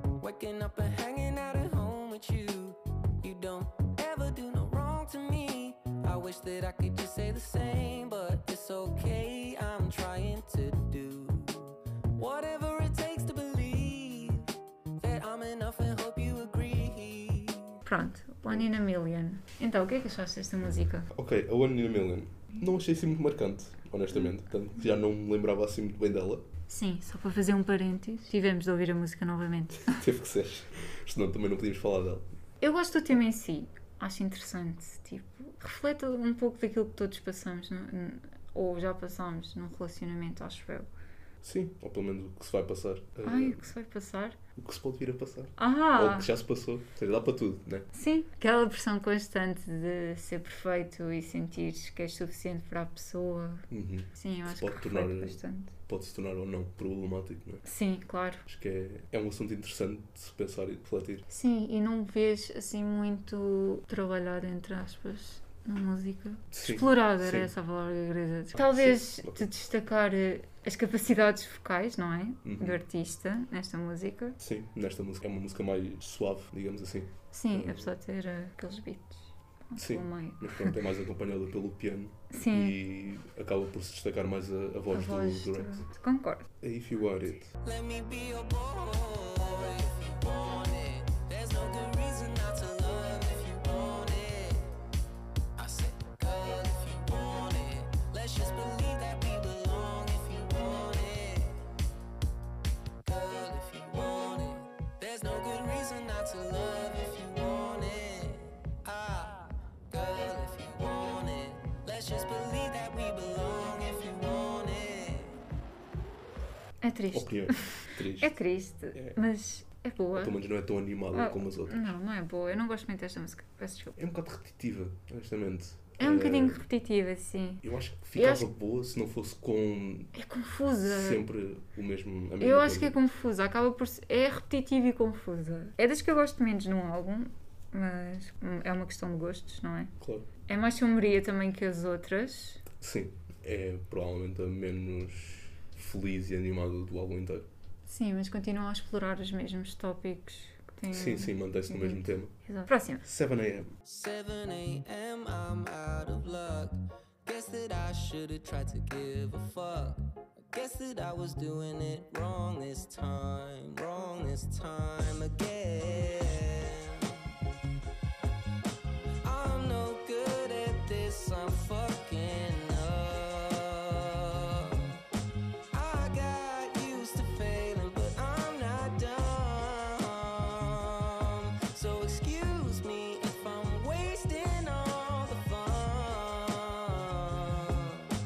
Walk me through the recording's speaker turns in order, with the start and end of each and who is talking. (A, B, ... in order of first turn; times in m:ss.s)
0:00.2-0:17.8 A
0:17.9-0:21.1 B
0:20.6-0:26.4 C
0:26.7-0:30.0 B
0:29.8-0:32.3 C
0:32.6-0:40.9 B
0:41.4-0:43.7 C
0:43.2-0:44.4 B
0:44.6-0:47.9 C
0:45.6-0:46.3 B
0:47.9-0:55.7 B
0:53.7-0:57.6 C
0:57.6-0:58.4 B
0:58.5-1:01.3 C
1:01.3-1:14.4 B
1:06.5-1:07.5 C
1:08.5-1:09.5 C
1:12.4-1:12.8 C
1:14.4-1:17.9 C
1:17.3-1:20.8 B
1:19.8-1:25.9 C
1:22.3-1:22.8 B
1:24.9-1:26.5 B
1:26.6-1:27.5 C
1:27.6-1:34.7 A
1:35.6-1:41.7 A
1:43.0-1:55.4 A
1:56.8-2:00.4 B
1:57.1-1:58.4 C
1:58.9-1:59.2 C
2:00.2-2:02.0 C
2:01.1-2:04.0 B
2:04.0-2:06.6 C
2:06.0-2:07.6 B
2:07.6-2:10.1 C
2:08.2-2:08.5 B
2:10.1-2:11.2 B
2:10.8-2:13.0 C
2:12.4-2:19.9 B
2:20.0-2:20.3 C
2:20.5-2:22.6 B
2:22.7-2:27.5 C
2:27.9-2:33.0 B
2:30.9-2:32.4 C
2:33.0-2:33.8 C
2:33.9-2:47.3 A
2:49.2-2:55.0 A
2:55.7-3:08.1 A